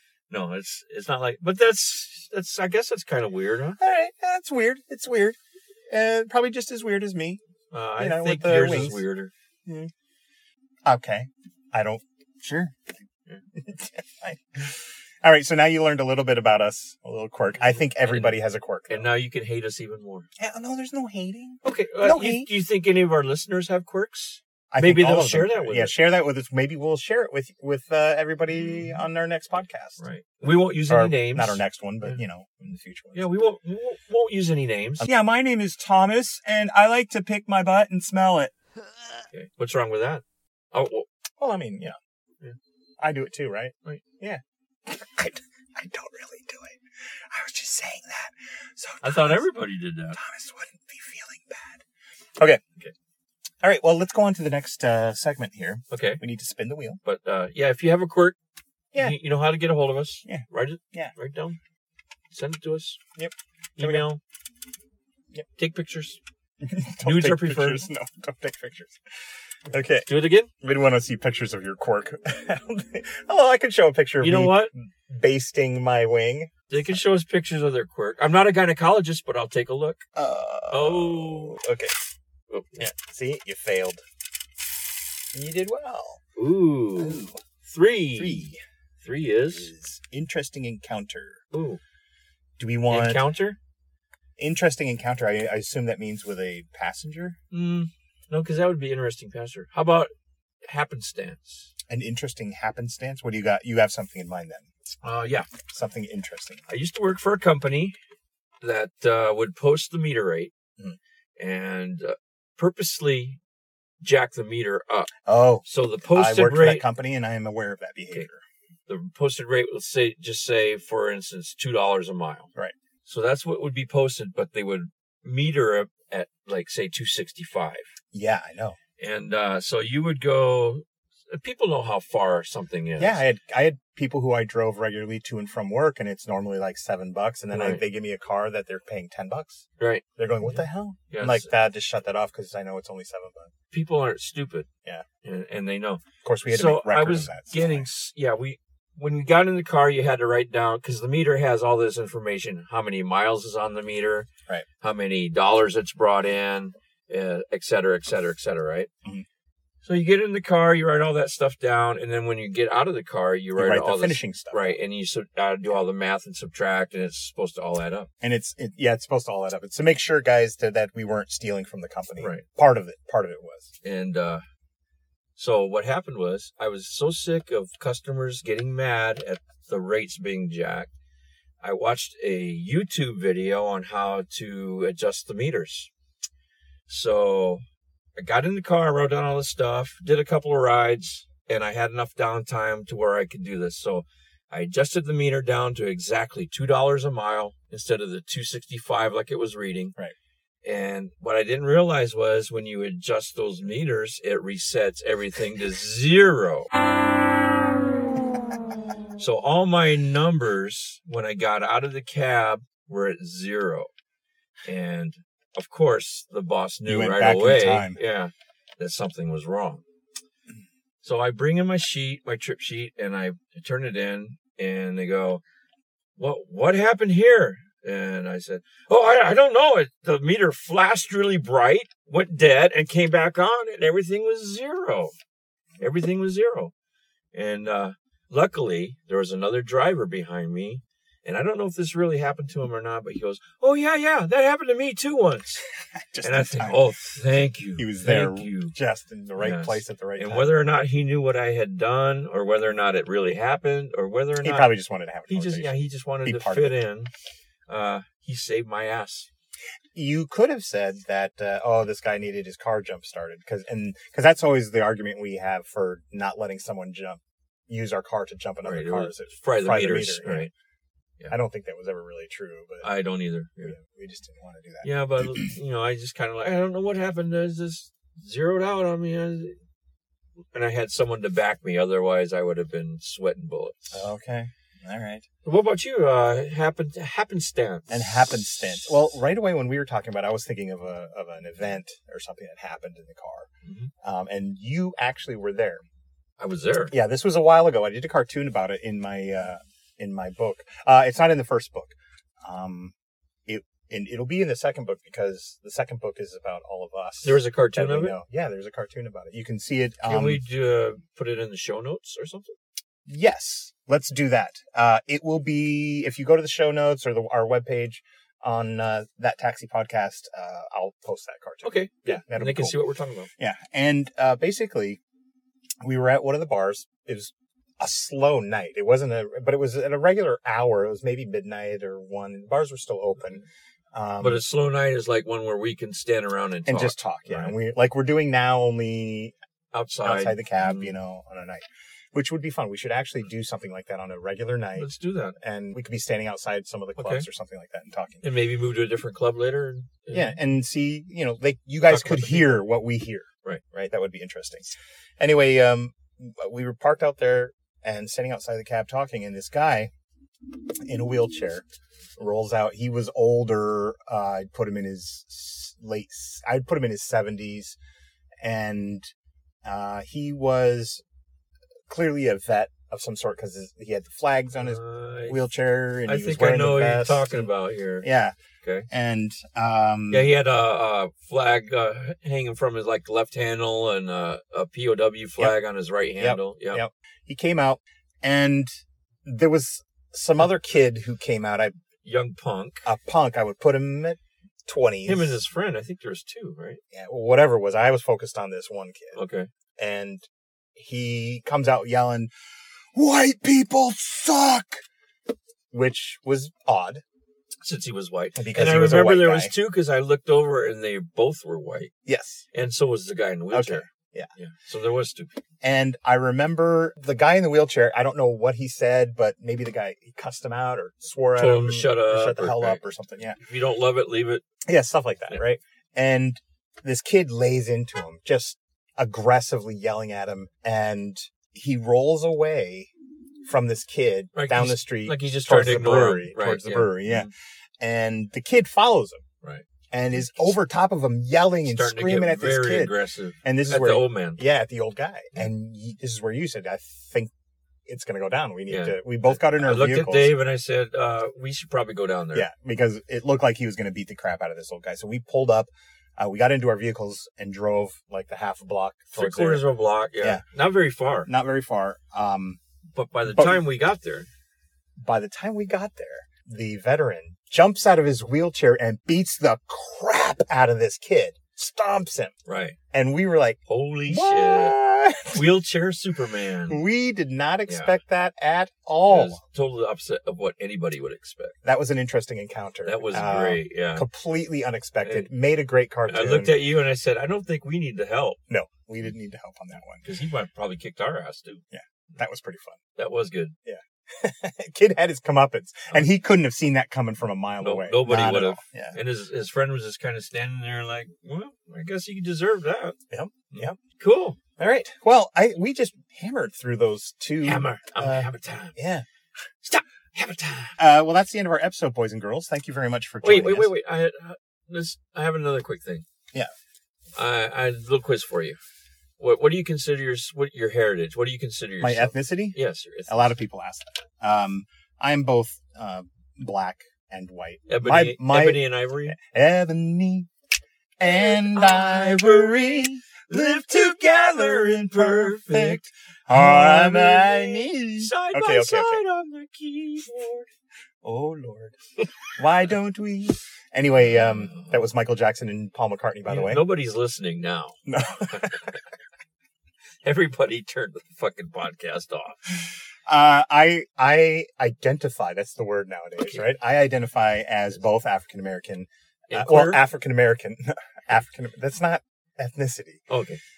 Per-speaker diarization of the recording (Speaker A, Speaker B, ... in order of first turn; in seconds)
Speaker A: 0.3-3.8, 7.7-9.3, 17.7-18.4, 18.9-20.3, 21.6-25.9, 28.5-29.0, 30.0-32.2, 33.1-35.1, 39.3-41.1, 49.0-50.2, 55.9-56.2, 57.0-58.4, 59.0-61.6, 62.3-63.0, 63.8-64.2, 65.5-66.2, 67.0-67.8, 70.0-70.5, 74.2-74.7, 76.7-80.0, 80.7-81.6, 82.5-82.8, 86.3-88.5, 89.0-89.7, 91.5-91.8, 92.9-93.6, 97.5-100.1, 100.6-101.7, 105.0-105.5, 106.7-107.9, 108.6-110.5, 111.4-113.4, 114.0-115.1, 115.6-116.8, 118.9-122.5, 123.0-127.9, 129.0-133.2, 137.5-137.8, 139.8-141.5, 143.7-144.7, 145.2-154.3, 154.8-158.9, 159.8-168.1, 173.8-174.4, 175.4-180.9, 181.6-185.9, 186.9-187.6, 188.2-199.9, 200.6-206.7, 209.2-213.9, 214.7-219.8, 221.0-225.4, 226.2-235.1, 235.8-236.7, 237.3-245.6, 246.2-248.7, 249.4-254.7, 255.3-257.1, 257.7-259.3, 268.6-270.5, 272.8-273.8, 274.8-279.6, 280.5-284.0, 285.4-288.9, 293.6-293.9, 296.4-296.9, 307.2-308.1, 310.0-312.5, 321.6-323.3, 334.2-337.5, 339.7-340.9, 344.8-345.4, 347.0-347.2, 348.2-350.4, 351.9-352.6, 374.6-375.4, 376.1-378.1, 380.1-386.8, 392.0-392.9, 395.0-396.8, 399.1-399.5, 407.6-411.9, 412.5-415.4, 421.4-422.8, 423.4-424.4, 434.3-437.3, 441.7-444.4, 448.7-452.5, 459.1-461.3, 462.9-464.3, 472.4-472.8, 473.7-474.8, 475.3-476.8, 477.7-478.0, 479.1-481.6, 482.8-484.1, 485.0-485.3, 486.1-488.4, 490.0-491.6, 493.0-493.6, 497.6-503.0, 503.5-504.4, 507.4-508.8, 509.6-510.8, 513.2-516.0, 517.1-518.6, 519.2-523.3, 527.7-529.1, 531.0-540.5, 544.1-544.7, 546.2-548.8, 550.0-552.4, 559.3-559.8, 563.1-563.4
Speaker B: 3.8-5.4, 5.9-7.4, 8.0-9.0, 9.7-9.9, 10.8-12.9, 13.5-19.1, 20.4-22.5, 24.7-30.0, 30.9-33.3, 35.0-38.5, 41.4-42.0, 43.0-49.5, 50.1-51.8, 53.6-57.0, 60.2-61.1, 63.1-64.1, 66.6-69.0, 69.7-70.1, 70.6-77.0, 80.1-81.9, 82.8-84.0, 85.3-86.2, 87.0-87.4, 88.2-88.6, 89.5-91.4, 92.6-93.2, 94.4-97.4, 101.9-104.7, 105.7-106.6, 115.2-118.4, 128.1-128.8, 133.0-139.6, 140.2-143.5, 146.2-147.8, 163.6-164.8, 168.2-173.7, 216.8-218.0, 246.1-246.9, 247.8-250.6, 254.4-256.8, 259.9-270.5, 271.3-272.9, 273.6-275.5, 283.9-285.2, 287.9-293.5, 294.0-295.8, 296.9-302.9, 303.5-310.4, 313.1-322.8, 323.4-325.0, 325.8-334.4, 336.6-339.3, 340.0-348.2, 350.1-359.9, 360.8-361.6, 362.2-367.8, 368.4-369.0, 369.6-371.0, 371.9-377.3, 378.0-378.3, 378.9-380.3, 386.2-388.7, 389.2-391.7, 392.8-395.4, 396.9-399.1, 399.8-402.3, 402.9-404.8, 405.7-407.0, 408.4-409.5, 412.0-412.4, 413.5-414.3, 415.6-423.4, 424.6-432.9, 433.4-439.2, 439.9-447.3, 447.9-450.3, 452.3-459.6, 461.3-462.6, 463.3-463.6, 465.0-472.3, 472.9-475.4, 476.7-479.4, 481.6-486.6, 488.5-490.0, 491.7-492.8, 493.6-499.0, 503.1-503.8, 504.6-509.0, 510.8-513.7, 521.8-530.3, 531.0-539.0, 541.0-541.8, 542.4-546.7, 547.9-548.7, 553.0-563.0